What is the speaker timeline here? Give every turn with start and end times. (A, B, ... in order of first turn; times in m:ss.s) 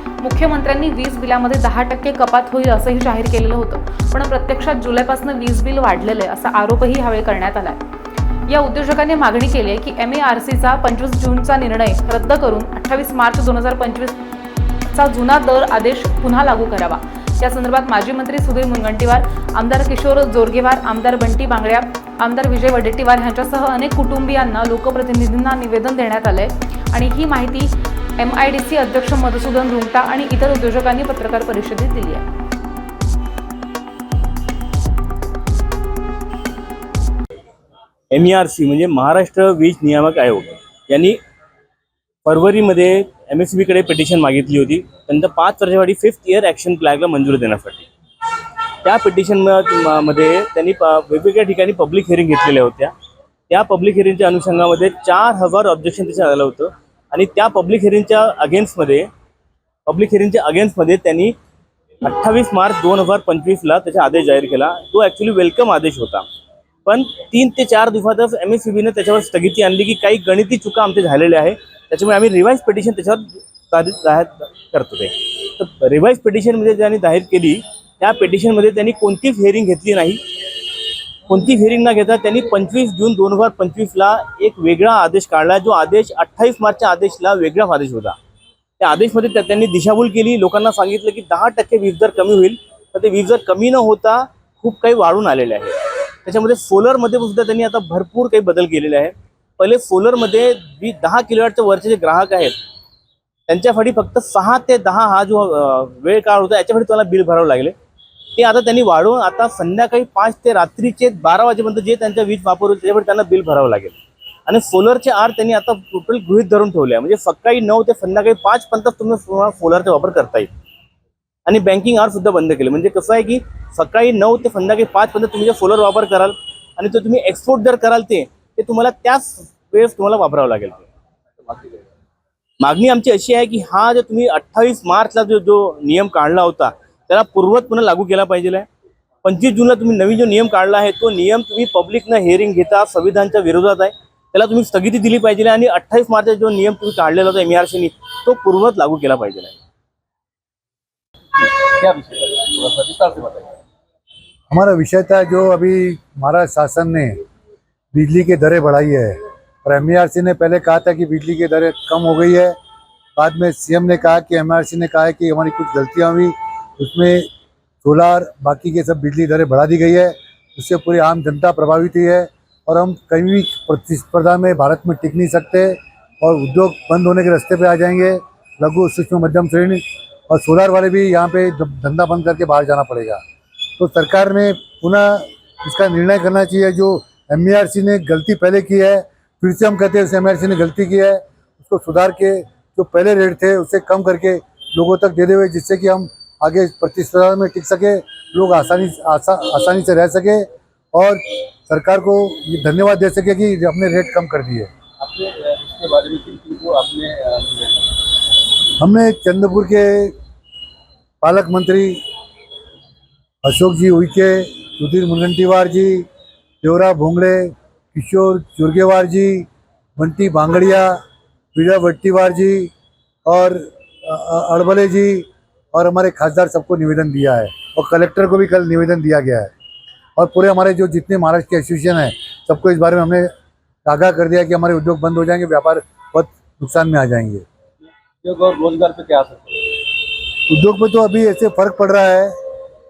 0:00.2-0:07.8 A
0:08.5-0:14.2 A
0:14.9-0:32.2 A
0:38.1-0:41.2 B
0:42.2-0:47.9 B
0:48.8-0:52.9 B
0:53.5-0:59.1 B
0:59.9-1:01.4 B
1:02.0-1:06.3 B
1:06.8-1:20.2 B
1:21.3-1:28.2 B
1:28.8-1:42.6 B
1:43.5-1:47.8 B
1:48.4-2:00.5 B
2:01.5-2:10.9 B
2:11.5-2:11.8 C
2:12.6-2:18.7 B
2:19.2-2:29.6 B
2:31.4-2:33.6 C
2:34.5-2:37.2 D
2:37.9-2:42.5 D
2:43.2-2:47.3 D
2:47.8-3:03.2 D
3:03.8-3:24.7 D
3:25.0-3:28.0 C
3:28.8-3:30.2 D
3:31.2-3:32.0 D
3:33.4-3:36.1 D
3:36.6-3:41.0 D
3:41.6-3:42.7 D
3:43.3-3:49.5 D
3:50.2-3:53.3 D
3:53.8-3:57.4 D
3:58.2-3:59.8 C
4:00.5-4:02.3 D